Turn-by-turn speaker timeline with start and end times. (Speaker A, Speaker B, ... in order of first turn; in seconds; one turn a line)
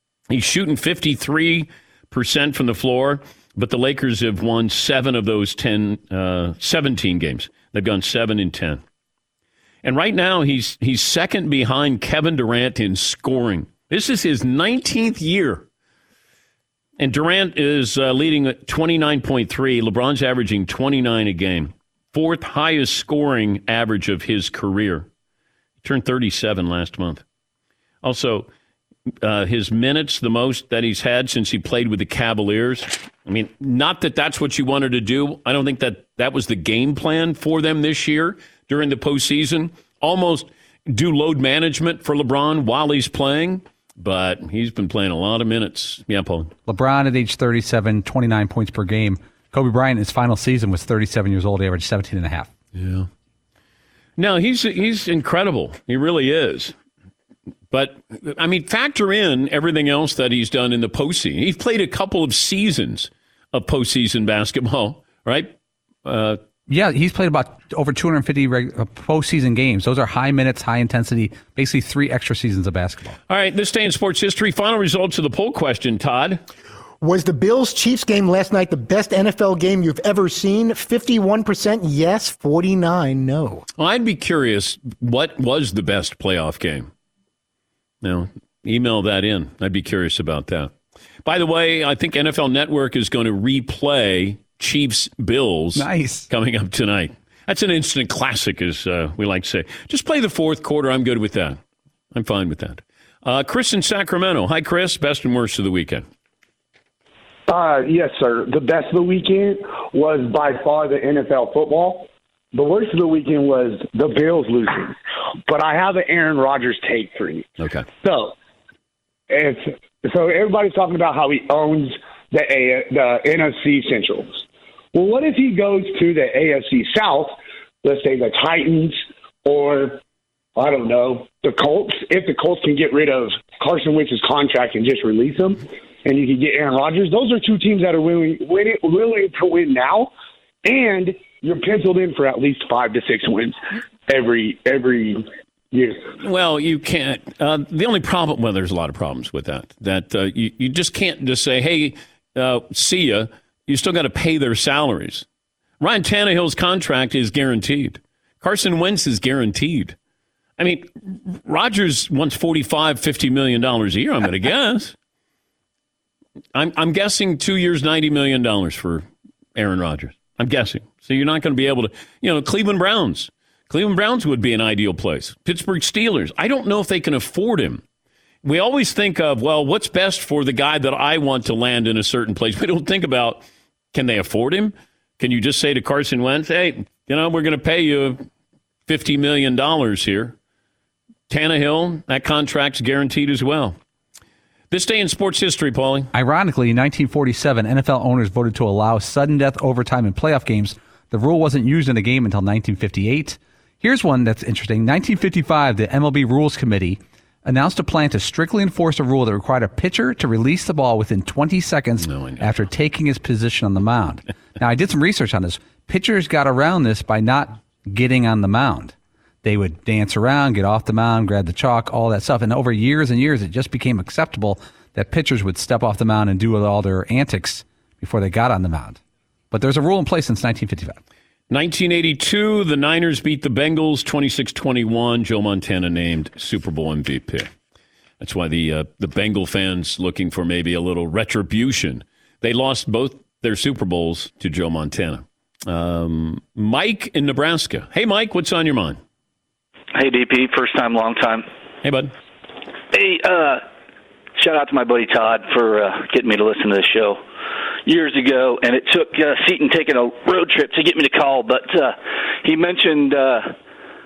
Speaker A: 0.3-8.8
Speaker A: 9.8-15.6
Speaker A: 17.0-25.1
Speaker A: 25.8-27.2
Speaker A: 28.0-28.5
Speaker A: 29.2-46.5
Speaker B: 46.7-52.5
Speaker A: 52.7-53.1
Speaker A: 54.2-56.7
Speaker A: 57.7-65.5
Speaker A: 66.0-66.4
Speaker B: 66.7-73.2
Speaker A: 73.3-76.4
Speaker C: 77.0-83.6
Speaker A: 83.8-86.9
Speaker A: 88.0-90.7
Speaker A: 91.2-101.6
Speaker B: 95.8-96.3
Speaker A: 102.1-106.0
Speaker D: 107.5-114.9
Speaker D: 115.5-117.5
Speaker D: 118.0-118.3
Speaker D: 119.3-124.4
Speaker D: 124.9-130.0
Speaker D: 130.6-140.1
Speaker D: 140.6-143.6
Speaker D: 144.1-146.0
Speaker A: 146.2-155.2
Speaker A: 155.8-159.9
Speaker A: 160.6-164.9
Speaker A: 166.5-177.8
Speaker A: 178.4-188.2
Speaker A: 188.9-190.3
Speaker A: 191.3-193.8
Speaker A: 194.7-196.1
Speaker B: 196.1-229.0
Speaker A: 212.0-212.4
Speaker B: 229.5-231.0
Speaker A: 231.5-237.5
Speaker A: 238.2-249.0
Speaker E: 249.9-251.4
Speaker A: 251.8-252.1
Speaker E: 252.9-253.6
Speaker E: 254.4-257.2
Speaker E: 257.9-263.5